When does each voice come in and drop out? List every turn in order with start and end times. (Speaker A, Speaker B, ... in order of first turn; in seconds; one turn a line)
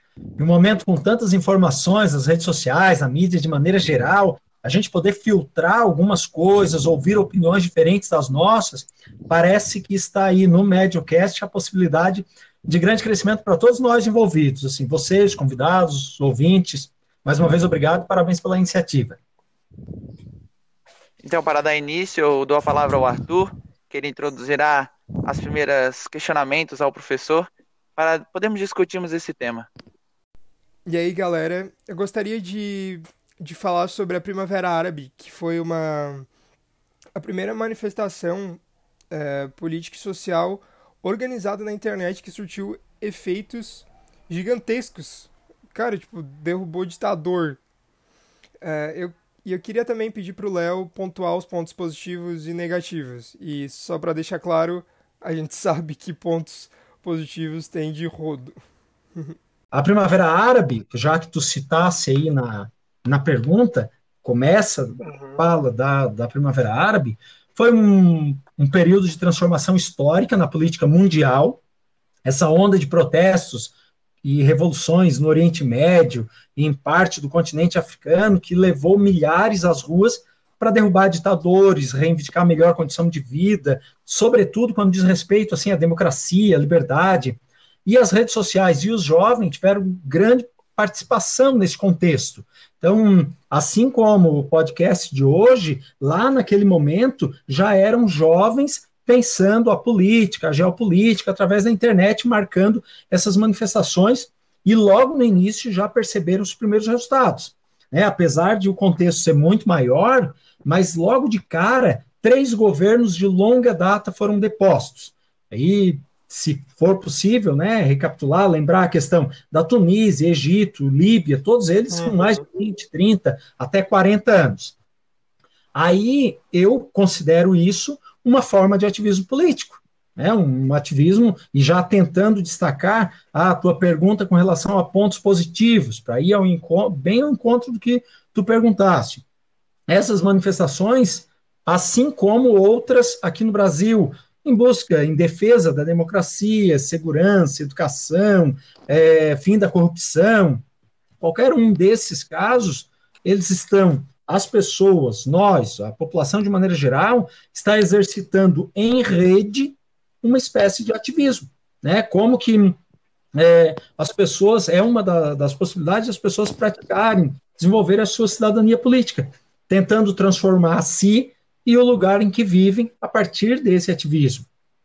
Speaker A: 0.4-19.2
Speaker B: 21.2-29.7
Speaker C: 30.9-36.3
Speaker C: 37.1-38.6
Speaker C: 39.1-47.6
Speaker C: 48.6-58.5
Speaker A: 59.7-71.6
Speaker C: 65.0-65.4
Speaker A: 72.2-124.7
Speaker C: 121.9-122.4
Speaker A: 125.7-139.2
Speaker A: 139.9-150.6
Speaker A: 151.2-162.8
Speaker A: 163.3-174.4